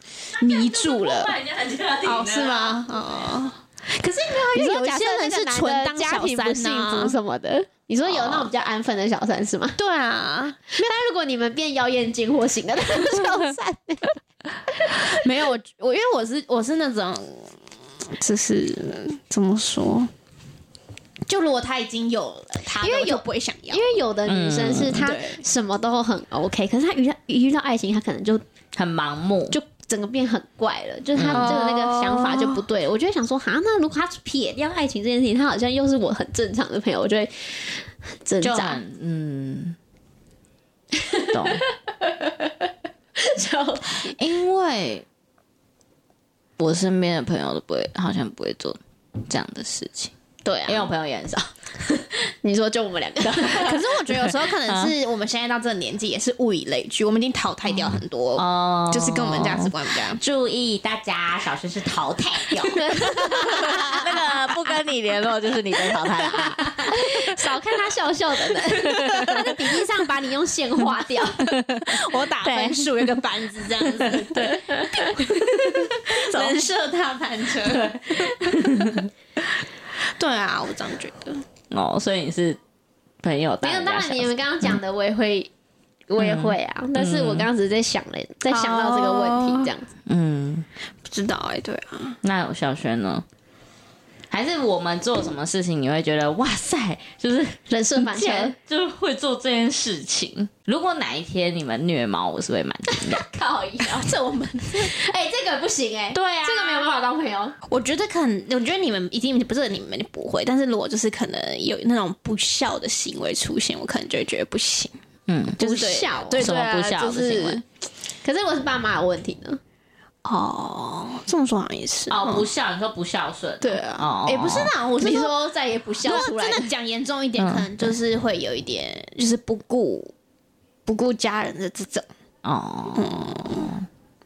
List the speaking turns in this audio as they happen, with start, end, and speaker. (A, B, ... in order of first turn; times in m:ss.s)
0:00.3-0:01.3 A
0:00.4-0:02.8 B
0:02.0-0:07.1 A
0:04.5-0:09.8 C
0:08.0-0:08.5 A
0:09.8-0:10.9 A
0:10.7-0:14.1 C
0:14.9-0:20.1 A
0:21.3-0:23.9 A
0:22.8-0:28.4 C
0:24.2-0:25.0 B
0:25.0-0:25.4 A
0:28.7-0:29.6 B
0:29.5-0:38.8 C
0:31.1-0:31.6 B
0:31.3-0:32.6 A
0:38.4-0:39.8 B
0:40.9-0:42.5 C
0:41.3-0:41.6 B
0:43.2-0:44.2 C
0:44.0-0:45.0 B
0:46.6-0:50.1 B
0:50.4-0:50.9 C
0:50.6-0:51.5 B
0:52.0-0:53.8 C
0:53.3-0:54.1 B
0:53.5-1:00.2 A
0:54.6-0:54.9 B
0:57.9-1:06.9 B
1:02.6-1:04.0 C
1:03.2-1:04.0 A
1:06.3-1:06.8 A
1:06.9-1:11.5 C
1:08.8-1:09.5 A
1:08.8-1:09.3 B
1:11.4-1:13.1 B
1:11.8-1:19.0 A
1:13.8-1:16.6 B
1:17.6-1:19.1 B
1:20.2-1:21.4 A
1:21.7-1:22.6 B
1:23.2-1:24.8 B
1:23.6-1:25.5 C
1:26.1-1:29.9 C
1:26.2-1:27.5 B
1:28.5-1:29.7 A
1:30.1-1:30.6 B
1:31.0-1:32.2 A
1:32.2-1:33.2 B
1:34.3-1:43.2 B
1:37.7-1:38.5 C
1:42.9-1:44.2 C
1:43.8-1:44.9 A
1:44.7-1:47.5 C
1:46.1-1:46.9 B
1:47.7-1:55.0 A
1:55.3-1:55.6 B
1:55.6-1:57.6 A
1:55.6-1:56.5 C
1:56.3-1:57.6 B
1:58.2-1:59.6 C
2:00.2-2:02.5 A
2:02.1-2:04.7 B
2:03.6-2:05.4 A
2:05.0-2:06.7 C
2:06.0-2:10.1 A
2:07.4-2:07.7 B
2:10.8-2:12.1 A
2:12.4-2:13.8 B
2:12.9-2:13.7 A